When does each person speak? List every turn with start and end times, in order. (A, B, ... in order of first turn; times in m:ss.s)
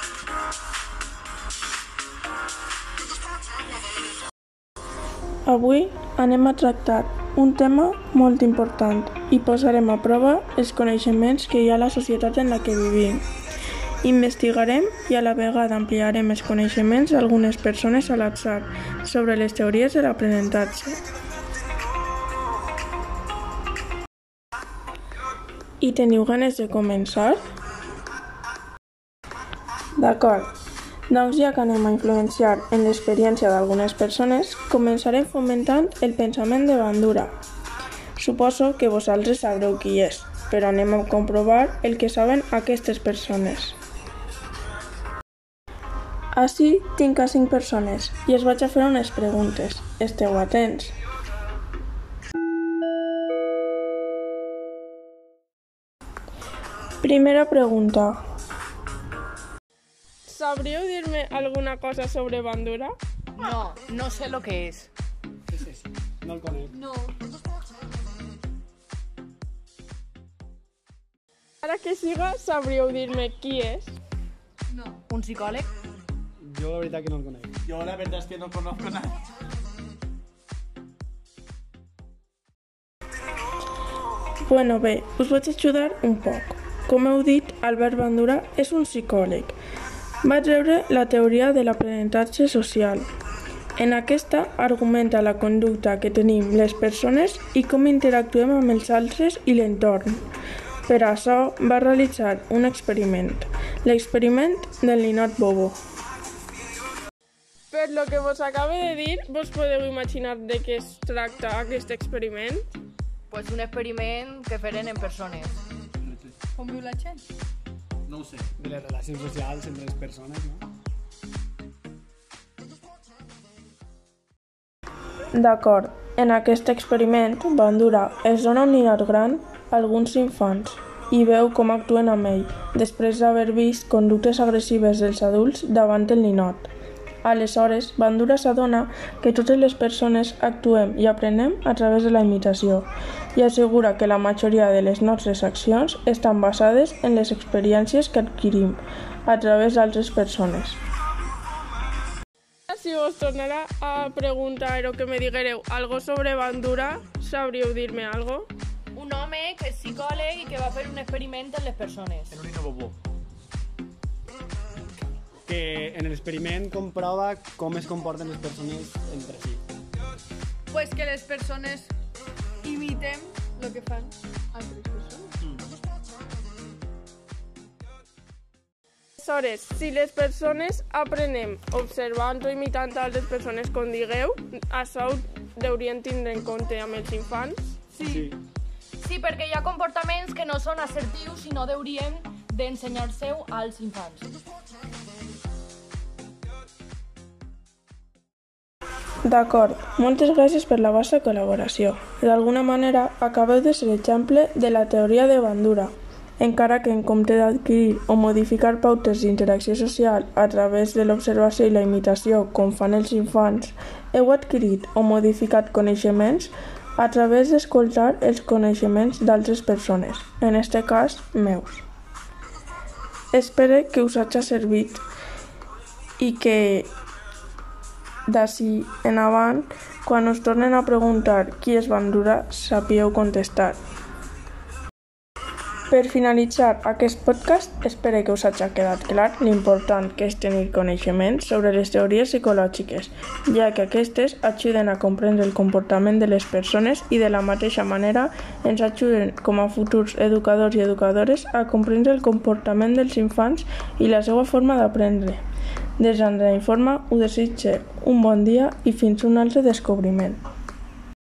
0:05.4-0:13.2 A
0:14.0-0:21.0 A
0:25.8-0:27.4 A
0:30.0-0:30.5 A
0:31.1-0:37.3 A
0:38.2-0:43.8 A
0:46.3-0:50.9 A
0:57.0-0:58.2 A
1:00.3-1:02.9 A
1:03.4-1:04.9 B
1:05.5-1:06.8 C
1:06.8-1:07.2 D
1:11.6-1:14.0 A
1:14.7-1:15.0 D
1:15.1-1:15.7 B
1:16.4-1:17.6 C
1:17.6-1:19.1 E
1:24.4-1:29.5 A
1:30.2-1:33.1 A
1:33.8-1:40.2 A
1:40.9-1:45.8 A
1:47.7-1:52.6 A
1:53.3-1:55.6 B
1:56.5-1:57.2 D
1:58.6-2:00.6 C
2:05.3-2:16.7 A
2:17.2-2:30.8 A
2:32.7-2:38.5 A
2:38.9-2:42.3 B
2:42.3-2:42.9 E
2:45.4-2:49.6 C
2:50.7-2:51.9 D
2:52.6-2:55.3 D
2:59.2-3:07.6 A
3:08.0-3:08.3 B
3:08.0-3:08.4 C
3:09.0-3:14.3 B
3:19.2-3:41.8 A
3:43.3-3:45.0 A
3:46.2-3:46.9 A
3:48.3-3:53.8 A
3:55.9-4:15.4 A
4:16.0-4:20.4 A